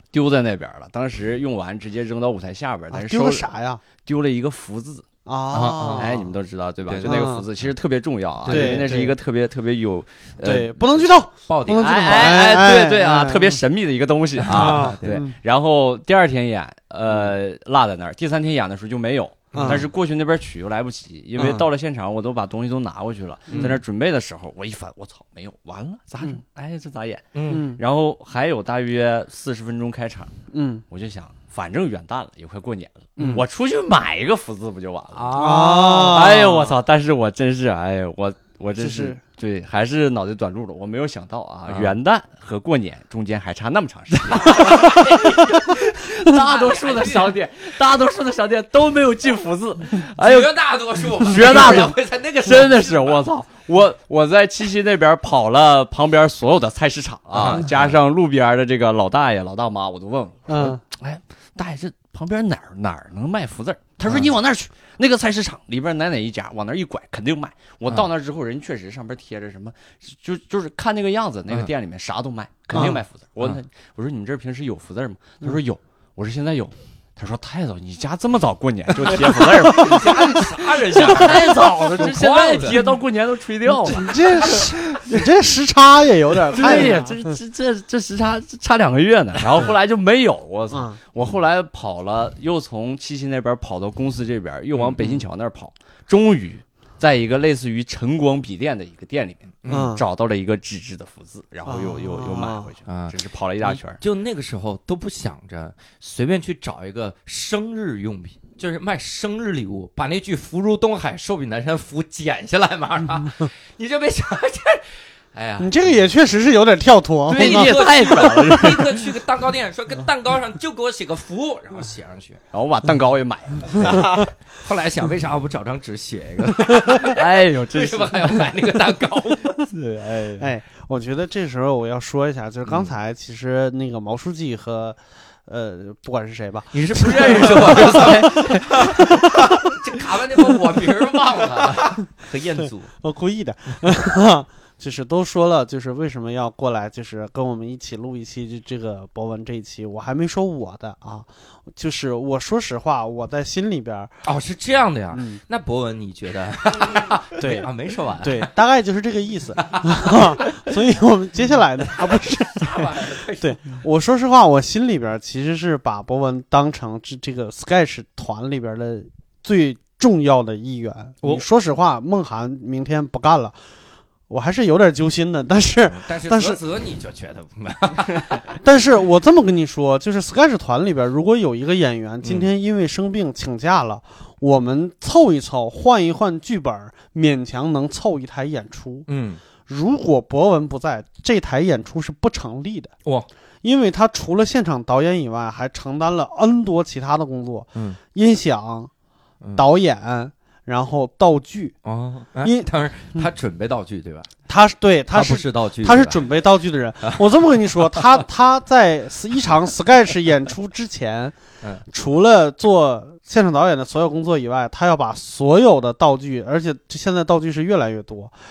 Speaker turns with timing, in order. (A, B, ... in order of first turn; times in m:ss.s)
0:00.1-0:03.5 A
0:02.9-0:03.8 B
0:04.0-0:05.1 A
0:05.3-0:06.3 B
0:05.5-0:06.1 C
0:05.9-0:10.8 A
0:06.9-0:07.3 C
0:07.0-0:07.5 B
0:08.4-0:09.0 C
0:08.5-0:09.1 B
0:10.4-0:13.6 B
0:11.5-0:12.6 C
0:11.7-0:30.3 A
0:14.4-0:15.2 C
0:14.5-0:15.4 B
0:19.5-0:19.8 C
0:19.5-0:19.8 B
0:21.4-0:21.7 B
0:23.5-0:23.8 B
0:23.5-0:23.8 C
0:27.3-0:27.7 C
0:27.5-0:27.8 B
0:30.5-0:30.8 B
0:30.9-1:24.7 A
0:33.2-0:33.4 B
0:35.1-0:36.3 C
0:35.4-0:36.8 B
0:38.8-0:39.2 B
0:41.7-0:42.0 C
0:44.4-0:47.4 C
0:50.2-0:53.2 C
0:57.3-0:58.0 C
1:00.5-1:00.8 B
1:12.7-1:13.0 B
1:19.1-1:22.8 C
1:23.8-1:27.4 B
1:26.5-1:44.0 A
1:30.7-1:31.0 B
1:34.7-1:35.1 C
1:39.6-1:39.9 C
1:39.7-1:40.0 B
1:41.7-1:42.7 B
1:42.9-1:56.0 C
1:55.6-1:57.8 B
1:57.3-1:59.1 A
1:57.3-2:02.4 C
2:02.5-2:04.2 A
2:03.8-2:09.6 C
2:07.1-2:08.5 A
2:09.7-2:10.5 A
2:10.4-2:19.3 B
2:12.7-2:12.9 C
2:16.7-2:22.9 C
2:17.5-2:18.6 A
2:23.0-2:34.1 B
2:34.2-2:38.5 C
2:35.1-2:35.4 B
2:37.4-2:37.7 B
2:38.2-2:53.6 B
2:39.6-2:40.4 C
2:42.0-2:43.8 C
2:54.3-2:56.6 B
2:55.9-2:58.6 C
2:58.6-3:09.1 B
3:02.2-3:02.5 C
3:09.1-3:09.4 C
3:09.7-3:12.9 B
3:13.6-3:18.9 B
3:19.6-3:21.8 B
3:21.8-3:24.3 C
3:22.4-3:23.3 B
3:24.5-3:31.4 B
3:25.1-3:26.3 C
3:31.9-3:38.4 B